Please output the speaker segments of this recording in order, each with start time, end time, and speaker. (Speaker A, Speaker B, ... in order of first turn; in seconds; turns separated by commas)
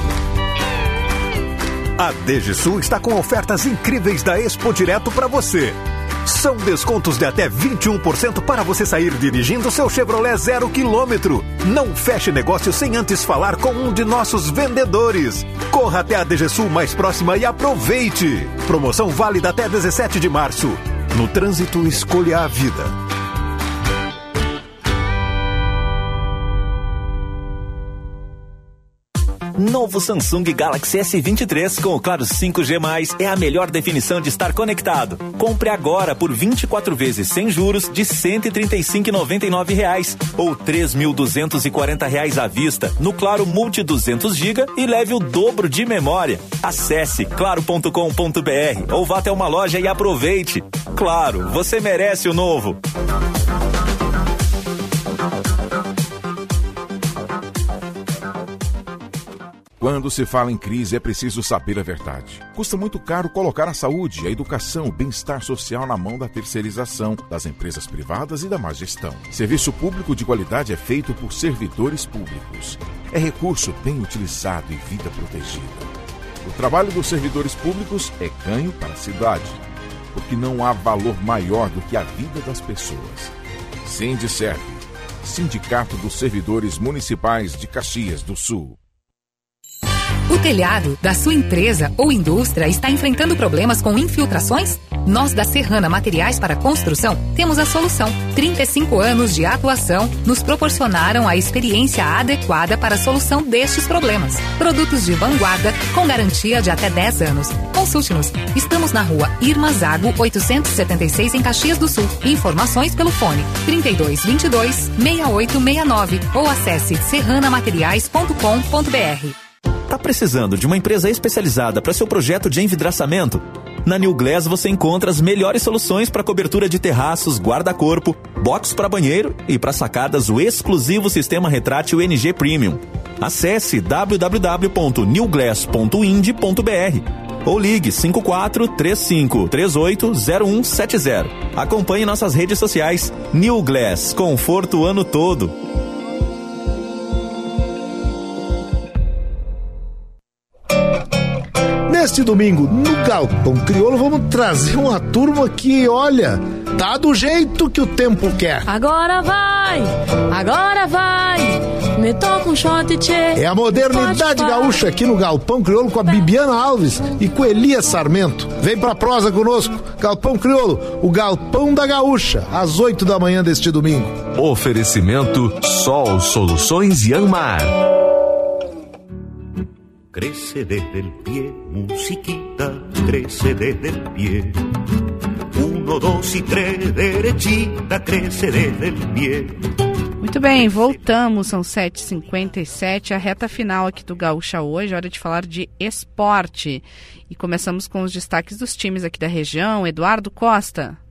Speaker A: 2.0-22.9, Speaker B: 29.6-52.8, Speaker C: 59.8-75.9, Speaker C: 76.4-79.6, Speaker C: 80.1-83.3, Speaker C: 83.8-88.8, Speaker D: 90.3-119.3, Speaker B: 119.9-145.5, Speaker E: 151.9-158.7, Speaker F: 158.7-164.8, Speaker E: 163.4-174.2, Speaker G: 174.3-177.8, Speaker H: 180.1-184.6, Speaker H: 185.5-189.6, Speaker I: 190.2-201.0